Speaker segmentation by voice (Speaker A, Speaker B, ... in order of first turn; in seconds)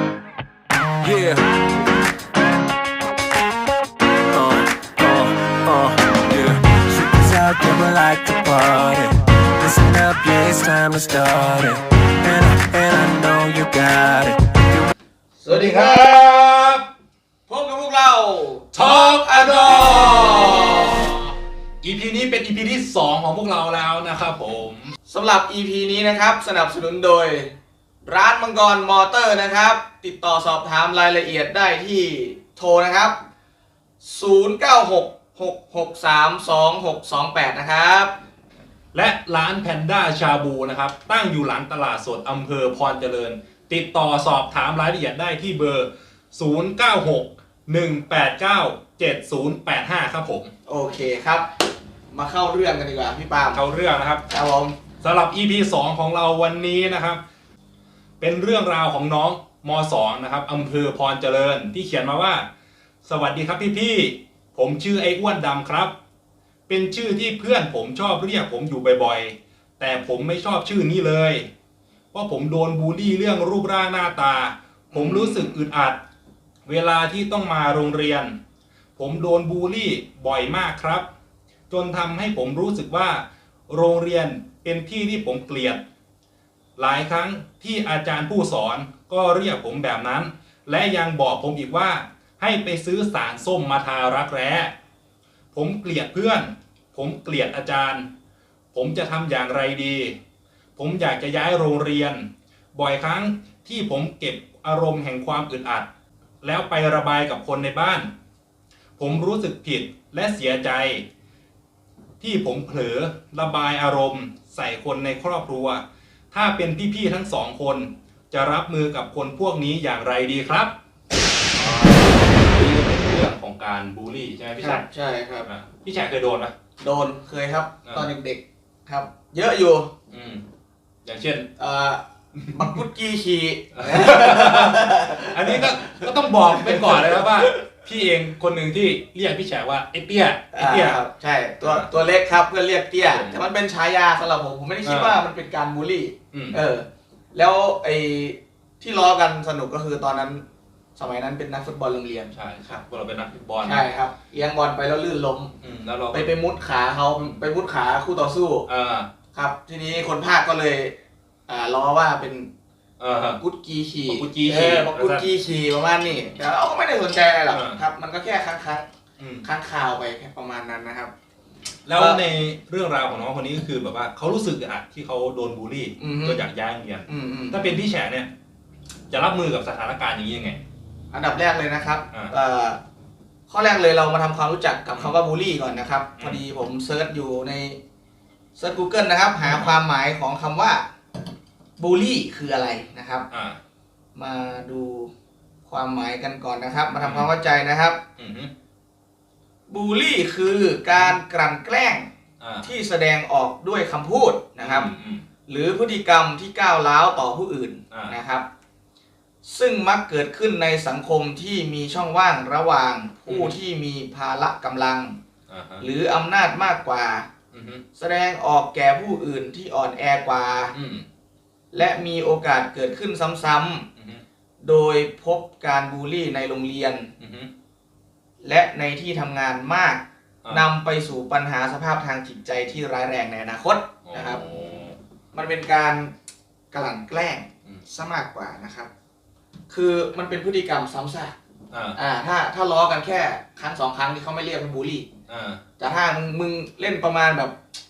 Speaker A: 1.0-1.5, 4.3-14.9
Speaker B: 15.4-16.1, 17.5-21.0, 25.1-27.5, 28.0-33.2, 34.0-38.1, 50.7-53.6, 54.3-54.8, 74.9-75.6, 124.6-125.5, 126.8-129.9, 131.6-137.5, 140.5-150.4, 150.9-152.8, 153.6-155.6, 156.1-158.7, 159.3-160.9, 161.5-162.5, 163.3-168.8, 169.4-171.1, 171.9-172.2, 176.0-176.4, 177.1-177.8, 181.1-182.8, 183.5-187.8, 188.6-190.9, 191.8-193.2, 194.1-195.1, 195.6-198.0, 199.7-202.1, 202.6-204.9, 205.5-208.4, 209.4-215.2, 215.8-217.3, 217.9-220.7, 221.7-223.9, 224.6-227.1, 228.4-234.4, 235.3-236.1, 236.7-238.9, 239.7-241.3, 241.9-245.1, 245.8-247.6
Speaker C: 15.5-16.9, 18.7-24.9, 38.9-50.5, 53.5-54.2, 55.0-57.2, 58.2-62.5, 63.0-65.9, 66.7-71.5, 72.1-76.0, 76.7-78.4, 79.0-81.1, 81.7-85.8, 86.8-94.7, 95.5-98.1, 98.7-100.2, 100.8-105.9, 106.4-108.1, 109.0-111.0, 112.2-120.7, 121.5-124.8, 125.4-126.5, 127.8-128.1, 130.1-130.4, 131.0-131.5, 133.7-141.0, 141.6-141.9, 143.0-143.3, 144.8-145.2, 146.3-146.6, 152.3-153.8, 155.6-156.3, 158.7-159.1, 163.0-163.4, 164.1-165.3, 167.5-167.8, 169.2-169.4, 171.8-178.3, 179.1-180.6, 189.4-189.7, 193.3-193.6, 197.0-197.3, 198.2-198.5, 202.4-202.7, 204.6-205.2, 207.9-208.2, 213.3-213.6, 215.5-215.8, 217.5-217.8, 220.7-221.1, 224.0-224.2, 227.2-227.5, 234.1-234.9, 241.7-242.0, 245.3-245.6